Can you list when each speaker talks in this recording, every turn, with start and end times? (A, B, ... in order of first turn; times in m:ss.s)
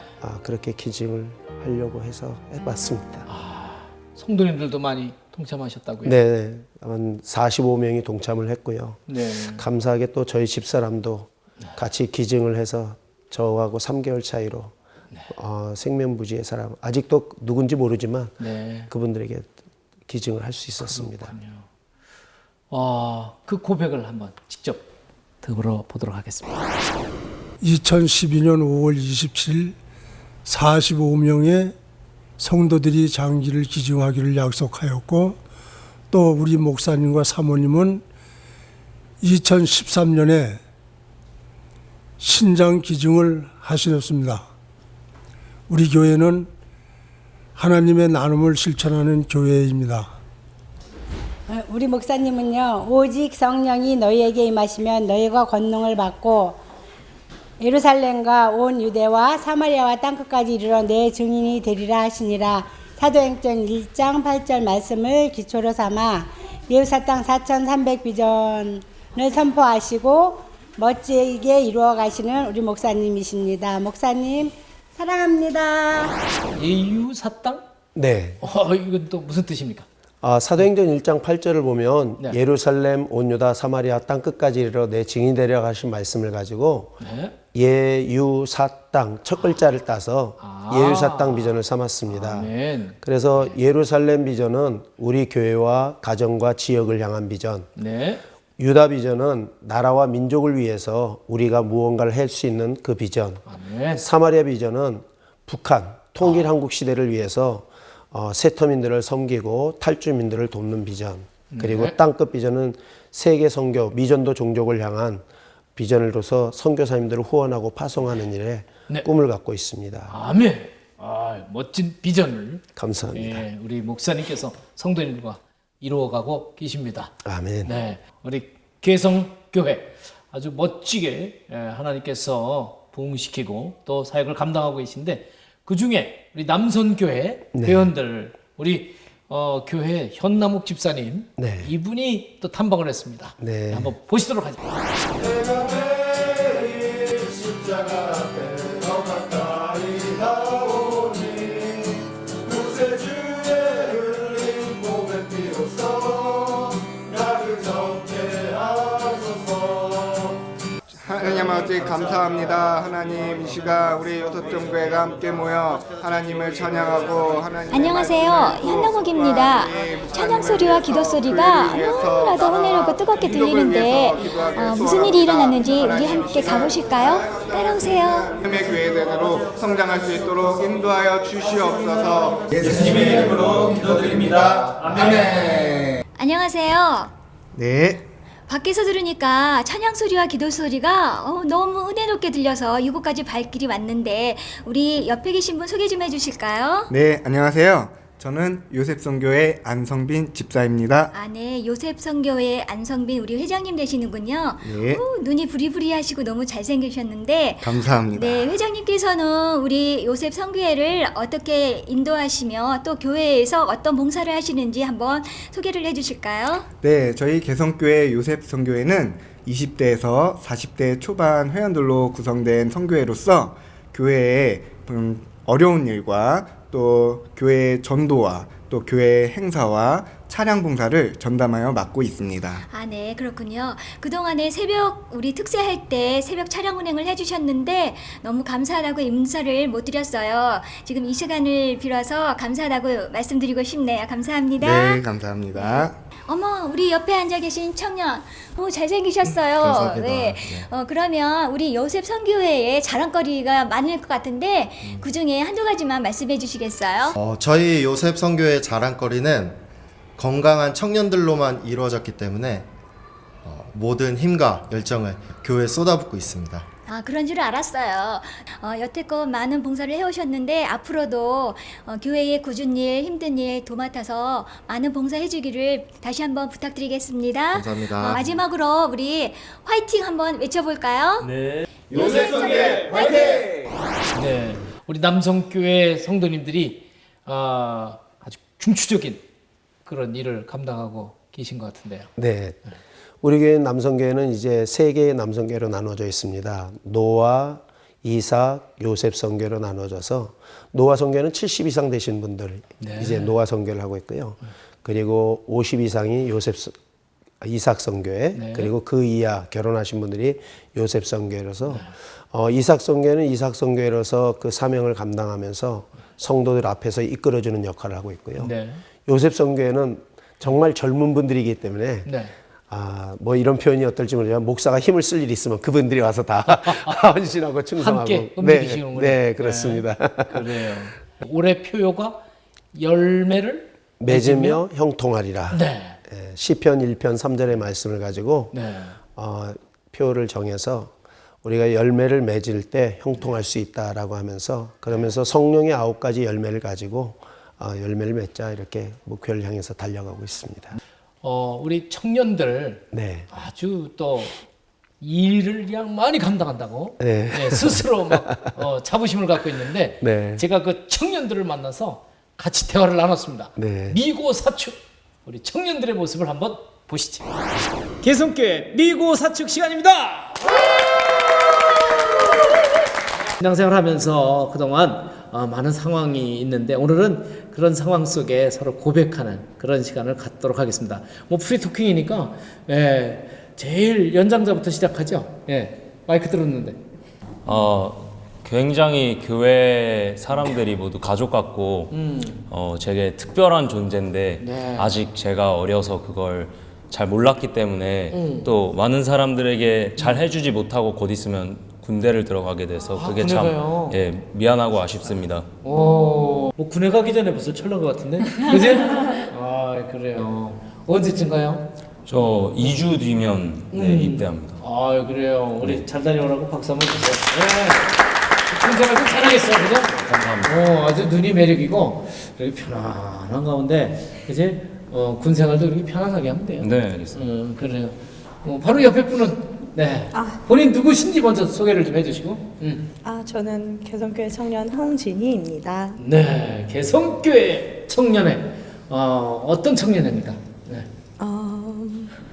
0:00.2-0:03.3 A
0:03.3-0:06.2 B
0:06.0-0:14.8 A
0:09.1-0:09.7 B
0:15.3-0:18.4 A
0:18.4-0:18.9 B
0:18.9-0:19.5 A
0:20.1-0:21.3 A
0:20.8-0:21.7 B
0:22.7-0:24.9 B
0:25.4-0:26.7 B
0:27.6-0:29.8 C
0:30.4-0:31.8 C
0:32.4-0:35.4 C
0:36.1-0:38.0 C
0:39.2-0:40.6 C
0:42.2-0:44.5 C
0:45.7-0:46.5 C
0:47.6-0:50.1 C
0:51.5-0:56.6 D
0:57.6-1:16.1 D
1:16.5-1:17.6 B
1:18.0-1:18.4 A
1:18.4-1:19.9 B
1:20.2-1:26.9 A
1:27.0-1:27.4 B
1:27.5-1:32.5 A
1:30.4-1:33.5 B
1:33.0-1:37.7 A
1:37.8-1:38.2 B
1:38.6-1:43.4 A
1:43.5-1:44.0 B
1:44.0-2:00.2 A
1:51.5-1:52.0 B
2:00.1-2:24.6 B
2:02.8-2:03.4 A
2:07.2-2:07.7 A
2:17.5-2:17.9 A
2:21.4-2:21.7 A
2:23.4-2:23.9 A
2:28.6-2:29.0 A
2:29.5-2:30.0 A
2:41.0-3:05.9 E
2:47.7-2:58.4 F
3:06.2-3:07.1 F
3:07.5-3:08.1 E
3:08.5-3:16.9 F
3:16.9-3:21.1 E
3:21.1-3:36.7 F
3:24.6-3:25.0 E
3:27.6-3:28.6 E
3:36.8-3:52.6 E
3:52.7-4:05.0 F
4:04.6-4:06.0 E
4:05.6-4:17.2 F
4:09.4-4:09.9 E
4:09.8-4:10.4 G
4:17.2-4:19.6 G
4:20.2-4:22.7 G
4:23.4-4:26.7 G
4:26.9-4:41.3 F
4:37.5-4:38.4 G
4:42.0-4:42.8 E
4:44.1-4:49.2 B
4:49.9-4:52.1 B
4:52.2-4:52.6 A
4:53.2-5:06.8 A
5:02.8-5:03.3 B
5:07.4-5:18.5 A
5:08.4-5:08.7 B
5:18.4-5:18.8 B
5:19.1-5:22.1 A
5:22.1-5:22.3 B
5:22.7-5:30.5 A
5:26.5-5:27.0 B
5:27.8-5:32.2 B
5:32.8-5:34.6 B
5:34.0-5:38.5 A
5:35.5-5:36.0 B
5:38.5-5:39.0 B
5:39.2-5:50.8 A
5:51.2-5:54.4 B
5:52.9-5:53.3 A
5:55.0-6:07.3 B
5:57.0-5:58.5 A
6:00.0-6:00.4 A
6:03.6-6:04.0 A
6:08.0-6:10.4 B
6:13.4-6:26.8 B
6:27.5-6:32.0 H
6:31.9-6:32.4 B
6:32.5-6:45.5 H
6:34.4-6:34.9 B
6:38.1-6:38.5 B
6:43.0-6:44.0 B
6:45.6-6:51.7 B
6:52.1-6:54.6 H
6:53.7-6:58.0 B
6:58.5-7:12.9 B
6:59.9-7:00.6 H
7:06.6-7:07.2 H
7:10.1-7:10.4 I
7:13.0-7:16.0 I
7:16.0-7:20.9 B
7:21.2-7:22.2 I